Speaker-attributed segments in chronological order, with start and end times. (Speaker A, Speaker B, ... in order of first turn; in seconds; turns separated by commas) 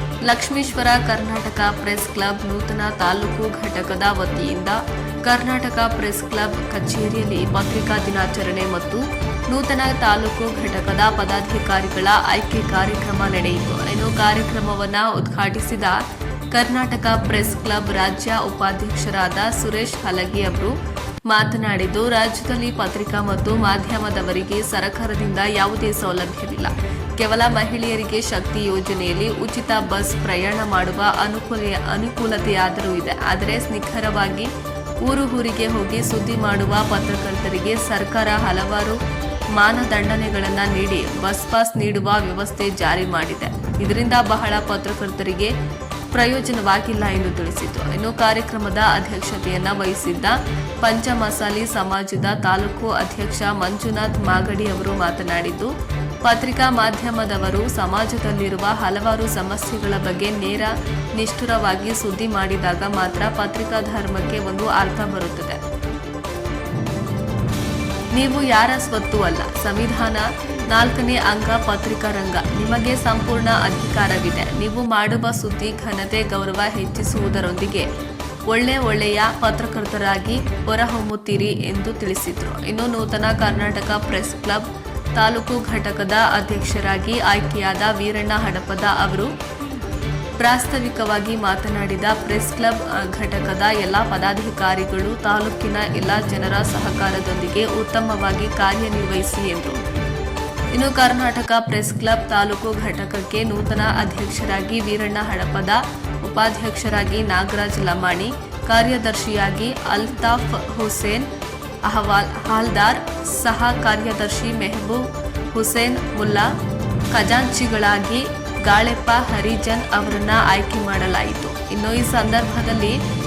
Speaker A: 0.2-16.0, Speaker A: 16.5-20.7, Speaker A: 21.3-34.5, Speaker A: 35.0-39.0, Speaker A: 39.5-45.5, Speaker A: 46.1-55.7, Speaker A: 56.2-65.6, Speaker A: 68.1-77.9, Speaker A: 78.5-89.3, Speaker A: 90.4-99.8, Speaker A: 100.7-111.2, Speaker A: 111.9-116.5, Speaker A: 117.1-123.0